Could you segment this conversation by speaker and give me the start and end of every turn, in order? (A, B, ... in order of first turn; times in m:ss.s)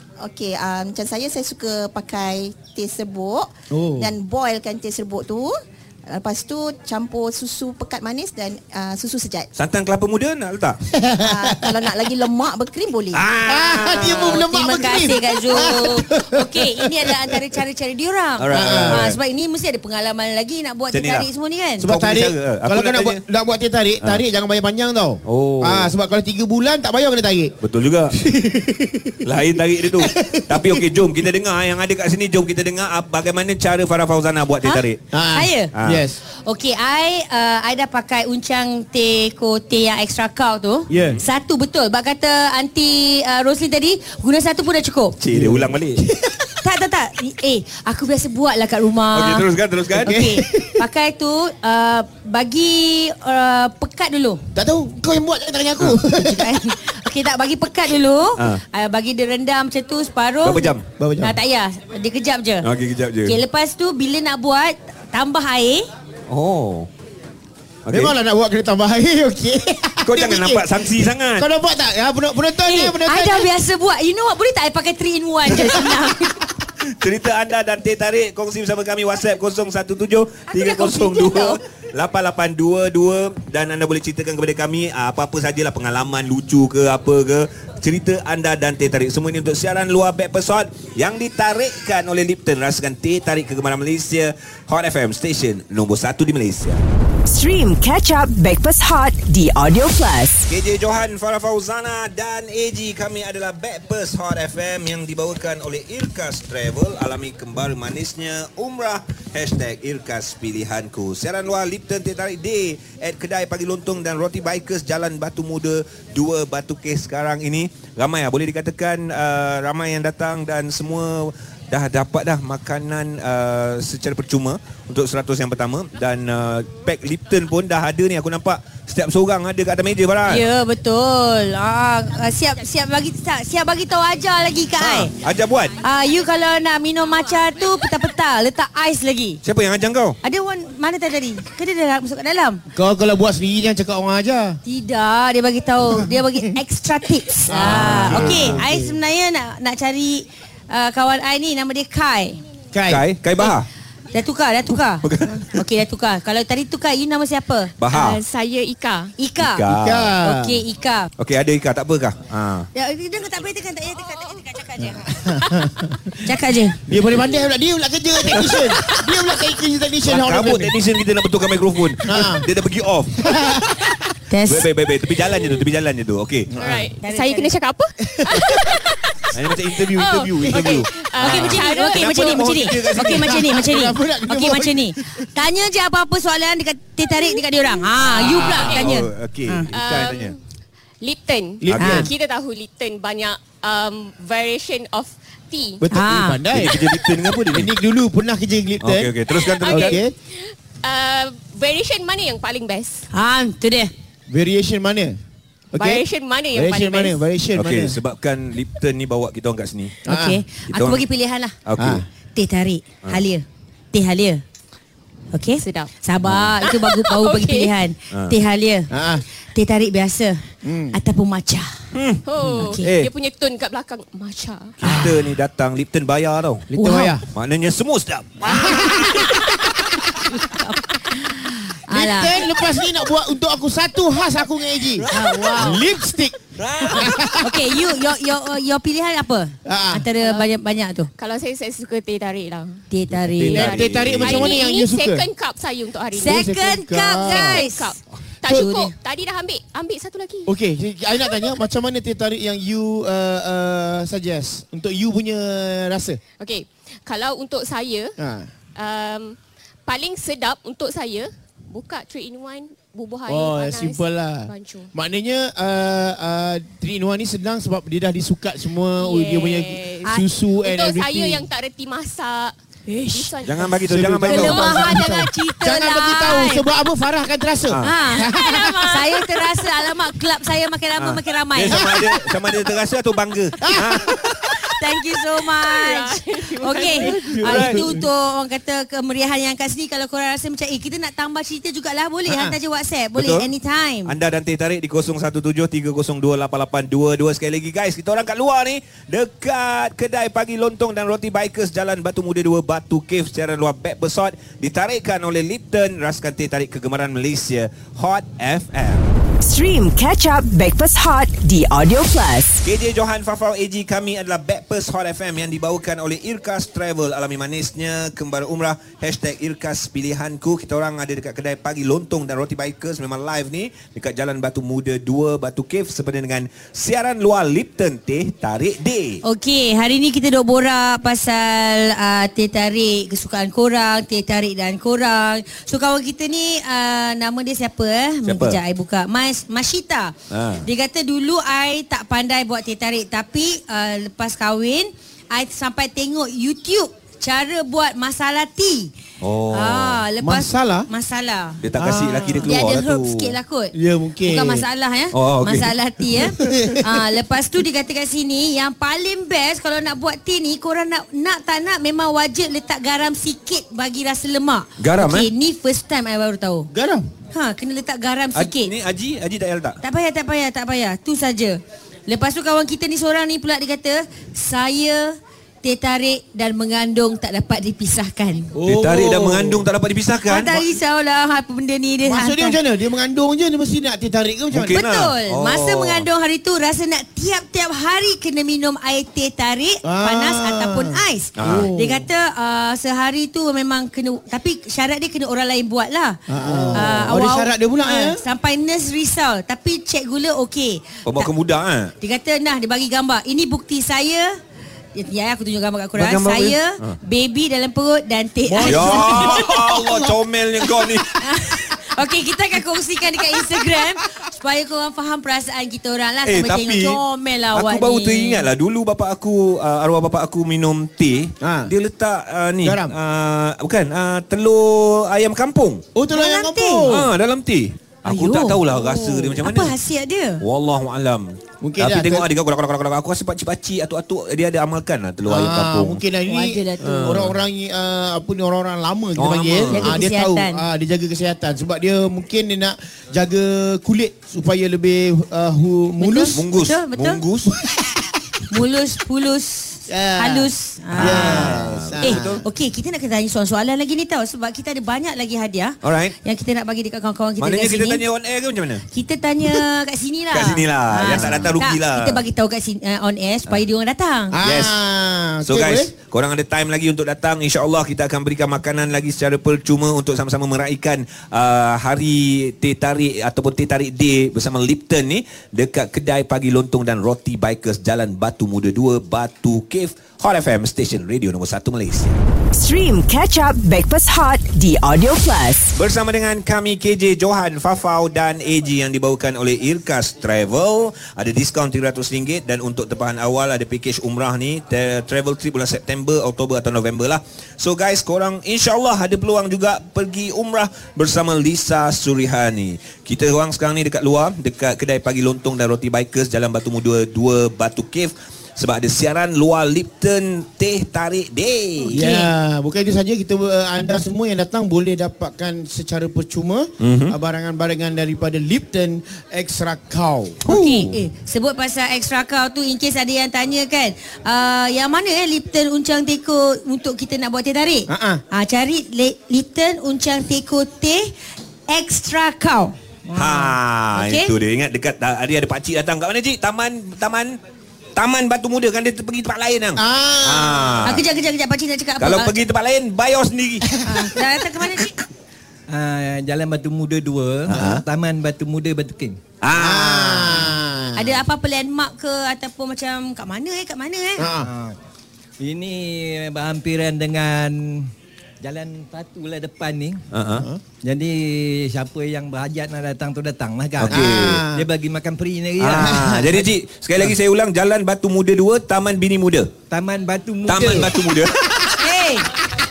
0:00.2-0:09.5 A
0:03.7-0:04.1 B
0:09.6-0:10.8 C
0:11.0-0:11.8 B
0:11.2-0:13.2 A
0:13.1-0:14.4 C
0:13.5-0:17.1 B
0:14.2-0:21.9 D
0:18.4-0:19.2 C
0:18.5-0:19.2 B
0:20.9-0:21.3 C
0:21.8-0:27.6 B
0:21.8-0:23.2 C
0:25.3-0:25.9 C
0:27.6-0:28.1 C
0:28.2-0:29.2 B
0:29.2-0:35.0 C
0:29.9-0:30.8 B
0:34.6-0:35.7 D
0:35.1-0:36.2 B
0:35.7-0:36.0 C
0:36.4-0:45.2 D
0:40.9-0:41.2 B
0:41.0-0:41.2 C
0:45.2-0:46.0 C
0:45.3-0:46.5 B
0:46.6-0:49.5 D
0:49.1-0:50.1 C
0:50.0-0:50.9 B
0:50.0-0:54.4 D
0:54.6-0:56.6 B
0:56.2-1:02.7 D
1:00.4-1:00.8 C
1:01.0-1:01.4 B
1:02.6-1:03.4 C
1:03.2-1:05.9 D
1:06.3-1:06.9 C
1:07.9-1:08.2 C
1:07.9-1:13.5 B
1:10.0-1:11.5 C
1:12.6-1:16.4 D
1:15.5-1:16.0 B
1:16.8-1:36.8 C
1:37.3-1:40.4 E
1:40.5-2:10.4 C
2:10.3-2:15.1 D
2:14.8-2:15.8 C
2:15.8-2:19.4 D
2:19.4-2:20.2 C
2:20.2-2:22.6 D
2:22.7-2:24.6 B
2:24.6-2:32.4 D
2:27.5-2:29.0 B
2:27.5-2:28.6 C
2:32.7-2:33.0 B
2:32.9-2:33.7 C
2:34.1-2:37.7 D
2:34.7-2:35.6 C
2:37.8-2:38.2 C
2:38.0-2:39.1 F
2:39.2-2:39.7 D
2:39.4-2:40.2 C
2:39.7-2:40.6 B
2:40.2-2:41.1 D
2:41.2-2:42.7 C
2:42.7-2:45.1 D
2:45.2-2:46.3 B
2:46.3-2:46.8 D
2:46.9-2:50.7 B
2:48.3-2:48.8 C
2:50.0-2:53.2 C
2:52.1-2:52.4 B
2:53.2-2:53.7 B
2:54.3-2:54.7 D
2:54.4-2:56.9 C
2:56.5-2:56.9 B
2:56.9-2:57.8 F
2:57.0-2:57.6 D
2:58.0-2:58.9 B
2:59.3-3:03.7 C
3:00.0-3:00.7 F
3:00.4-3:00.8 B
3:01.2-3:09.7 D
3:01.3-3:02.5 F
3:03.1-3:05.3 B
3:08.1-3:10.4 C
3:08.5-3:08.9 F
3:09.8-3:10.4 F
3:11.0-3:15.8 F
3:11.6-3:12.1 B
3:11.6-3:12.1 C
3:11.8-3:12.1 D
3:15.8-3:20.1 B
3:15.9-3:16.4 D
3:16.5-3:17.7 C
3:18.8-3:20.0 C
3:20.8-3:23.0 F
3:23.1-3:23.9 D
3:24.3-3:25.2 B
3:25.7-3:28.0 B
3:25.8-3:27.1 F
3:27.6-3:30.0 C
3:30.0-3:30.4 B
3:30.1-3:31.6 D
3:30.7-3:31.0 C
3:31.6-3:32.0 C
3:31.8-3:32.0 B
3:32.4-3:34.4 D
3:35.3-3:38.9 D
3:35.6-3:35.9 F
3:36.2-3:36.6 C
3:37.1-3:37.6 F
3:38.1-3:38.4 C
3:38.9-3:39.2 B
3:39.5-3:40.4 D
3:40.6-3:41.0 B
3:40.9-3:41.7 D
3:41.9-3:42.3 C
3:42.4-3:42.9 D
3:42.6-3:44.7 F
3:42.8-3:43.1 C
3:44.8-3:46.7 C
3:44.8-3:45.2 B
3:46.7-3:47.2 B
3:46.8-3:47.2 D
3:47.3-3:49.4 C
3:48.5-3:49.8 B
3:50.3-3:52.4 D
3:51.9-3:57.7 B
3:54.9-3:55.5 C
3:55.1-3:55.8 D
3:56.6-3:57.1 C
3:56.9-4:01.1 D
3:59.6-4:00.1 B
4:01.2-4:02.7 F
4:02.9-4:03.8 D
4:03.1-4:04.6 C
4:03.5-4:05.3 B
4:04.4-4:06.3 F
4:06.1-4:07.6 B
4:06.1-4:08.0 D
4:07.3-4:07.9 F
4:08.5-4:10.5 F
4:08.5-4:08.9 D
4:10.5-4:16.2 B
4:16.4-4:18.1 F
4:18.2-4:18.5 B
4:18.8-4:19.3 F
4:19.9-4:24.0 F
4:23.3-4:31.5 B
4:24.5-4:24.9 F
4:29.0-4:29.8 F
4:30.7-4:32.5 F
4:32.9-4:33.7 D
4:33.4-4:35.0 C
4:33.8-4:39.0 B
4:34.3-4:36.7 D
4:37.7-4:37.9 C
4:37.8-4:41.9 D
4:41.0-4:44.4 C
4:41.7-4:42.2 B
4:43.6-4:44.6 B
4:44.7-4:54.1 D
4:45.7-4:47.1 F
4:47.1-4:47.8 B
4:47.4-4:47.9 C
4:52.3-4:52.6 B
4:53.2-4:53.5 C
4:54.1-5:09.2 C
5:09.4-5:12.6 E
5:12.6-5:29.2 C
5:29.2-5:48.9 D
5:38.2-5:38.6 C
5:40.3-5:40.7 C
5:49.2-5:50.1 C
5:49.5-5:51.6 D
5:50.2-5:50.9 B
5:51.6-5:53.4 C
5:51.8-5:52.5 B
5:52.4-6:06.7 D
5:53.7-5:54.7 B
5:55.1-5:55.7 C
5:56.4-5:57.0 B
6:04.8-6:05.3 C
6:06.7-6:07.0 B
6:07.3-6:08.7 D
6:08.4-6:09.8 C
6:09.8-6:18.5 D
6:18.6-6:19.7 B
6:18.6-6:20.8 C
6:20.2-6:22.6 D
6:22.0-6:24.8 B
6:24.5-6:26.1 C
6:24.8-6:36.2 D
6:29.8-6:32.1 B
6:31.4-6:31.7 C
6:36.3-6:38.2 B
6:36.7-6:41.3 D
6:41.0-6:41.9 C
6:42.0-6:44.3 D
6:45.0-6:49.8 D
6:46.0-6:47.0 C
6:48.5-6:49.5 B
6:48.6-6:51.7 C
6:51.1-6:58.5 D
6:56.2-6:57.0 C
6:57.5-7:05.8 C
7:01.4-7:01.7 B
7:02.6-7:02.9 B
7:06.0-7:07.1 B
7:06.1-7:06.9 D
7:06.9-7:09.8 C
7:08.1-7:10.4 D
7:10.4-7:16.0 C
7:11.6-7:12.3 B
7:15.3-7:26.4 B
7:16.3-7:17.3 D
7:16.8-7:17.4 C
7:19.2-7:20.0 C
7:19.7-7:20.6 D
7:26.0-7:27.2 D
7:26.3-7:27.6 C
7:27.6-7:28.0 B
7:28.5-7:38.0 D
7:29.9-7:32.4 B
7:31.0-7:32.4 C
7:35.8-7:36.2 C
7:37.4-7:38.8 C
7:38.9-7:44.4 D
7:40.3-7:42.2 C
7:41.1-7:41.5 B
7:44.3-7:45.9 B
7:44.4-7:44.8 C
7:45.4-8:02.2 C
8:02.6-8:05.7 E
8:05.8-8:32.0 C
8:31.8-8:32.3 D
8:31.9-8:40.9 B
8:36.8-8:37.2 C
8:40.5-8:51.2 D
8:40.5-8:40.9 C
8:47.9-8:48.2 B
8:51.7-8:54.3 D
8:53.1-8:57.4 C
8:58.0-9:01.0 C
8:59.8-9:00.9 B
9:00.8-9:02.4 D
9:02.0-9:03.7 C
9:03.7-9:04.1 B
9:03.8-9:04.9 D
9:04.6-9:04.9 C
9:05.7-9:09.2 G
9:07.5-9:07.8 B
9:07.5-9:07.9 C
9:09.4-9:10.4 C
9:09.6-9:11.2 B
9:11.0-9:14.3 D
9:14.2-9:14.5 B
9:14.4-9:14.8 G
9:15.4-9:17.6 G
9:18.4-9:20.0 G
9:20.1-9:20.5 C
9:20.8-9:26.5 G
9:23.8-9:24.4 C
9:23.9-9:24.7 B
9:25.6-9:29.5 C
9:25.8-9:26.2 B
9:29.7-9:30.9 G
9:30.4-9:31.4 C
9:31.5-9:31.9 B
9:31.8-9:32.3 D